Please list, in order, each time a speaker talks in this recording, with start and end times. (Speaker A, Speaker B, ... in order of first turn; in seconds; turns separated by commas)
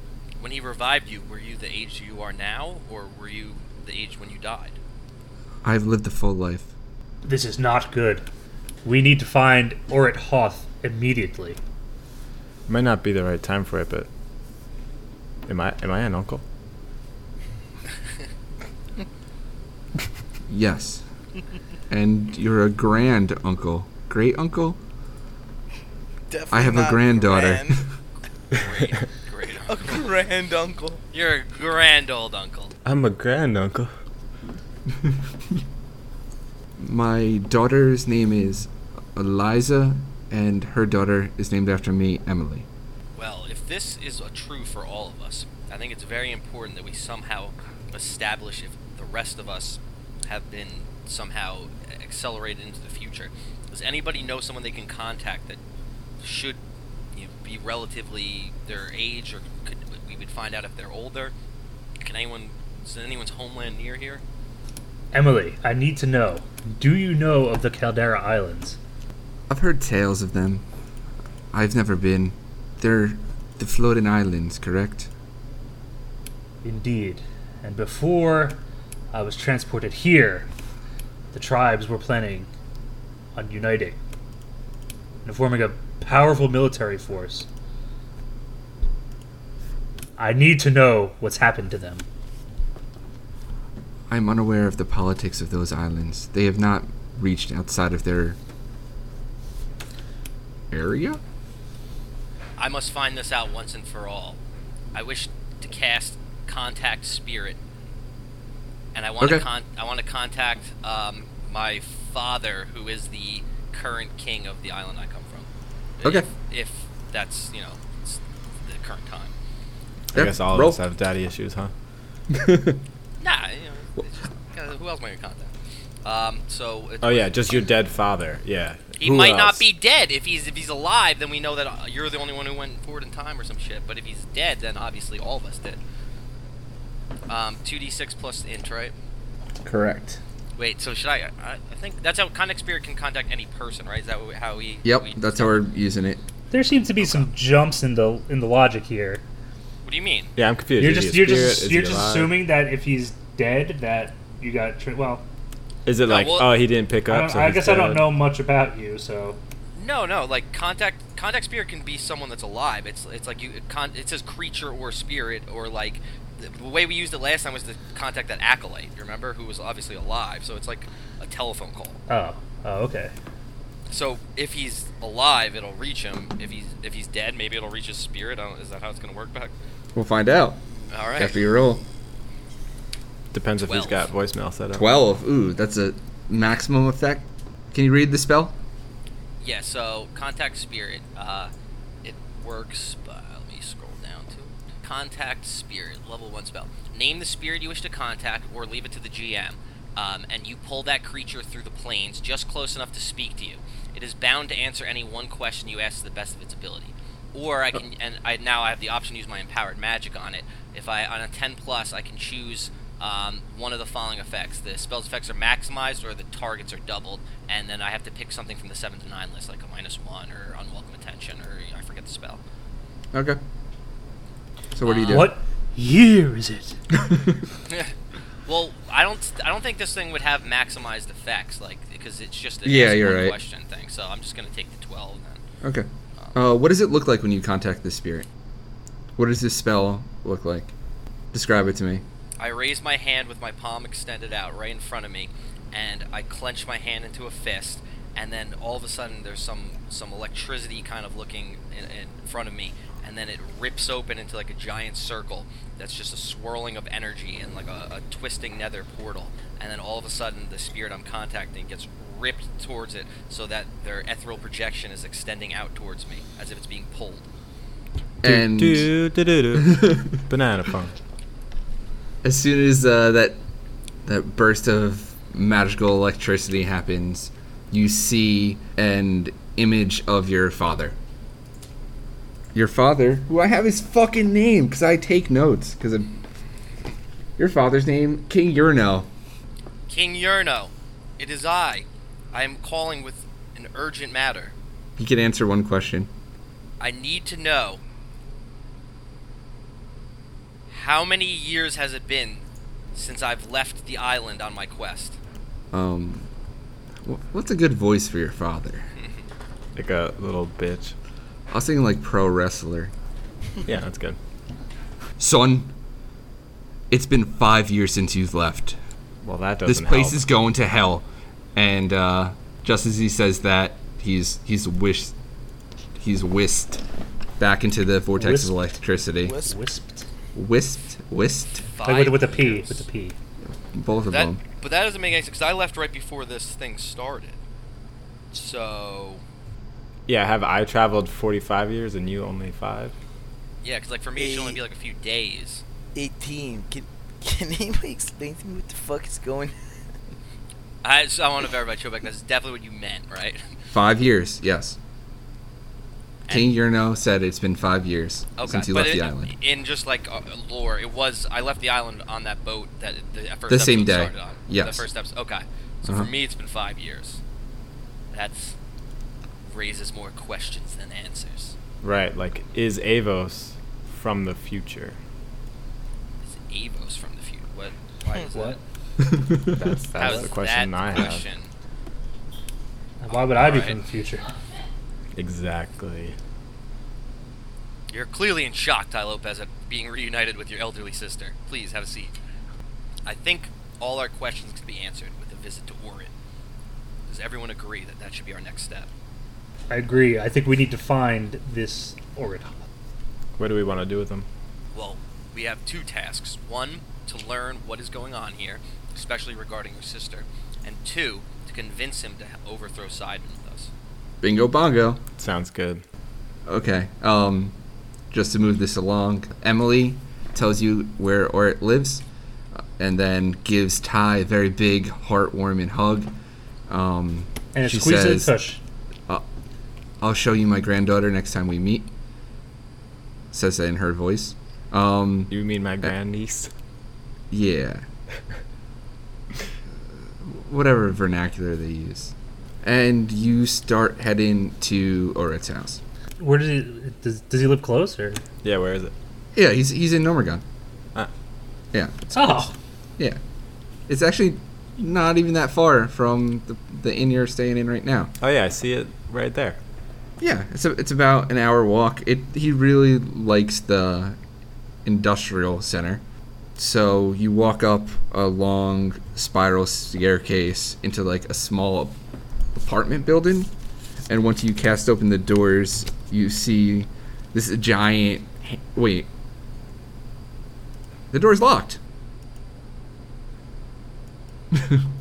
Speaker A: 0.4-4.8, Speaker B: 5.6-6.7, Speaker C: 7.2-8.2, Speaker C: 8.8-11.6, Speaker D: 12.7-14.1, Speaker D: 15.5-16.4, Speaker B: 20.5-21.1, Speaker B: 21.9-24.8, Speaker E: 26.3-27.8, Speaker B: 26.5-27.9, Speaker A: 28.5-30.1, Speaker E: 29.7-31.0, Speaker A: 31.1-32.7, Speaker D: 32.9-33.9, Speaker B: 36.8-42.7, Speaker A: 43.1-55.6, Speaker A: 56.2-56.6, Speaker A: 57.1-61.3, Speaker A: 62.0-64.2, Speaker C: 65.1-68.8, Speaker B: 69.5-70.7, Speaker B: 71.5-75.1, Speaker C: 76.6-78.6, Speaker C: 79.1-80.5, Speaker C: 81.3-82.5, Speaker C: 83.4-84.0, Speaker C: 85.2-87.5, Speaker C: 90.2-92.1, Speaker B: 94.1-98.4, Speaker B: 100.7-101.2, Speaker A: 102.6-104.4, Speaker A: 104.9-107.6, Speaker A: 109.0-115.5, Speaker A: 116.0-119.3, Speaker B: 116.0-116.3, Speaker B: 120.1-120.8, Speaker D: 120.1-121.7, Speaker B: 122.3-122.8, Speaker A: 123.2-125.5, Speaker A: 126.0-127.6, Speaker D: 127.0-129.7, Speaker A: 129.0-135.8, Speaker A: 137.3-138.9, Speaker B: 139.7-140.2, Speaker A: 140.6-145.6, Speaker B: 144.8-146.2, Speaker C: 146.5-149.2, Speaker A: 147.0-147.3, Speaker A: 149.8-150.3, Speaker D: 150.4-152.4, Speaker C: 150.8-155.2, Speaker D: 155.9-158.2, Speaker A: 156.1-156.5, Speaker C: 157.1-159.4, Speaker A: 159.8-172.0, Speaker C: 172.1-173.1, Speaker A: 173.9-179.5, Speaker B: 179.9-180.6, Speaker A: 180.9-181.4, Speaker B: 181.2-181.8, Speaker D: 183.3-185.0, Speaker A: 183.6-184.1, Speaker B: 184.8-188.6, Speaker A: 189.4-191.5, Speaker A: 192.0-222.4, Speaker B: 223.1-223.4, Speaker B: 224.7-225.3, Speaker A: 224.8-225.3, Speaker C: 225.1-226.8, Speaker B: 226.9-227.4, Speaker A: 227.7-227.9, Speaker A: 228.5-235.4, Speaker B: 232.7-233.4, Speaker B: 235.6-238.3, Speaker B: 239.2-240.7, Speaker B: 241.3-242.0, Speaker A: 242.4-267.2, Speaker B: 268.2-268.9, Speaker D: 268.2-270.9, Speaker B: 269.6-270.1, Speaker B: 272.2-273.4, Speaker B: 274.1-281.0, Speaker B: 282.5-286.1, Speaker B: 287.4-289.1, Speaker A: 289.9-294.5, Speaker B: 295.0-296.1, Speaker A: 296.8-297.8, Speaker A: 300.7-302.4, Speaker A: 302.9-305.2, Speaker B: 305.7-306.3, Speaker B: 307.0-308.9, Speaker D: 309.8-310.9, Speaker B: 311.5-312.9, Speaker D: 313.6-314.2, Speaker B: 315.2-315.7, Speaker B: 316.9-318.8, Speaker D: 319.2-320.2, Speaker B: 319.6-325.1, Speaker B: 326.0-326.8, Speaker B: 327.4-329.4, Speaker C: 328.2-328.6, Speaker E: 329.2-329.6, Speaker C: 329.4-330.1, Speaker B: 330.3-331.7, Speaker A: 331.8-332.9, Speaker C: 331.9-333.2, Speaker B: 333.5-334.4, Speaker A: 334.1-337.4, Speaker A: 338.3-339.2, Speaker D: 340.1-342.9, Speaker A: 343.6-345.6, Speaker E: 344.2-344.6, Speaker E: 345.9-349.8, Speaker A: 350.8-353.5, Speaker B: 353.7-354.8, Speaker A: 356.3-356.5, Speaker B: 356.3-359.4, Speaker A: 358.4-367.2, Speaker B: 363.5-364.9, Speaker B: 365.9-366.1, Speaker A: 368.1-368.6, Speaker A: 369.4-371.6, Speaker D: 371.8-375.0, Speaker A: 376.2-378.6, Speaker C: 378.3-378.6, Speaker D: 379.5-381.3, Speaker A: 379.9-381.5, Speaker C: 383.0-384.2, Speaker A: 383.1-383.8, Speaker D: 385.1-386.2, Speaker A: 387.9-392.1, Speaker A: 393.1-396.1, Speaker A: 397.1-398.9, Speaker C: 399.7-402.7, Speaker D: 403.4-404.3, Speaker A: 404.7-413.7, Speaker B: 414.2-415.0, Speaker D: 415.2-415.8, Speaker B: 416.5-417.6, Speaker B: 418.1-422.0, Speaker B: 422.8-426.1, Speaker B: 426.7-428.3, Speaker C: 427.5-428.6, Speaker B: 430.0-431.9, Speaker B: 433.3-435.3, Speaker D: 435.3-436.5, Speaker B: 437.3-437.9, Speaker B: 440.2-445.8, Speaker C: 446.2-448.2, Speaker D: 448.4-448.9, Speaker B: 449.3-450.4, Speaker B: 451.7-452.1, Speaker C: 452.1-452.5, Speaker B: 453.9-458.1, Speaker D: 458.2-459.6, Speaker B: 460.2-464.2, Speaker B: 464.9-466.0, Speaker B: 466.6-472.0, Speaker B: 472.6-473.5, Speaker B: 474.1-479.1, Speaker B: 481.1-481.8, Speaker B: 484.5-484.9